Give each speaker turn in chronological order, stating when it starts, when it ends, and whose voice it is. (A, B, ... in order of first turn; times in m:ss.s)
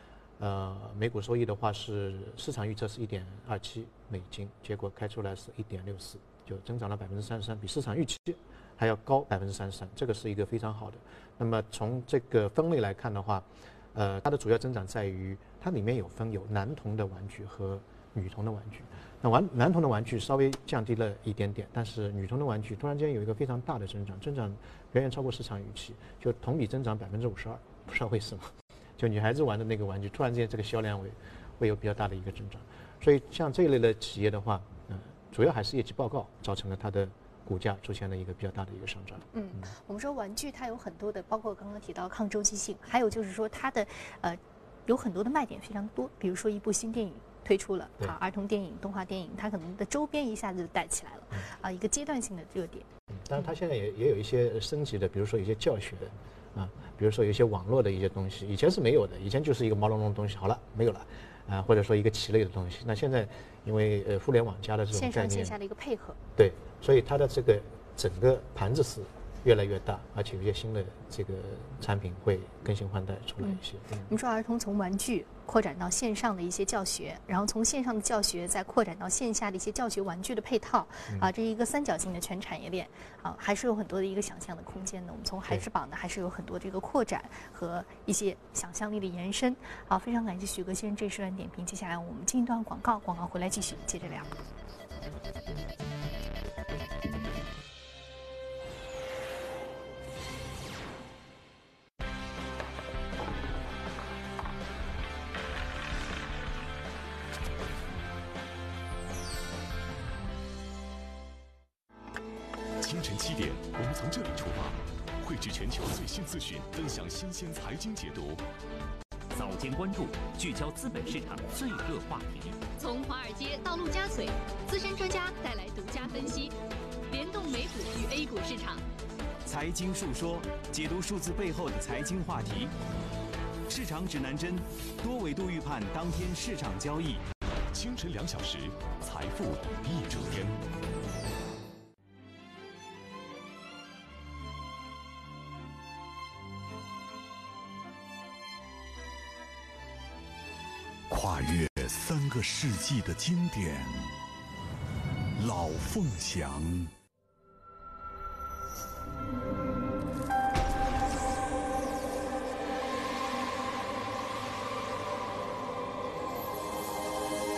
0:00.4-0:39.7 A
0:39.3-0:52.9 B
0:53.1-1:05.6 A
1:04.9-1:06.2 B
1:06.4-1:14.1 A
1:13.4-1:34.3 B
1:52.8-1:58.4 C
1:59.3-2:02.6 D
2:02.8-2:06.6 E
2:07.1-2:08.8 E
2:09.4-2:12.7 F
2:13.7-2:17.2 F
2:17.7-2:20.6 C
2:31.1-2:34.1 G
2:35.3-2:36.9 G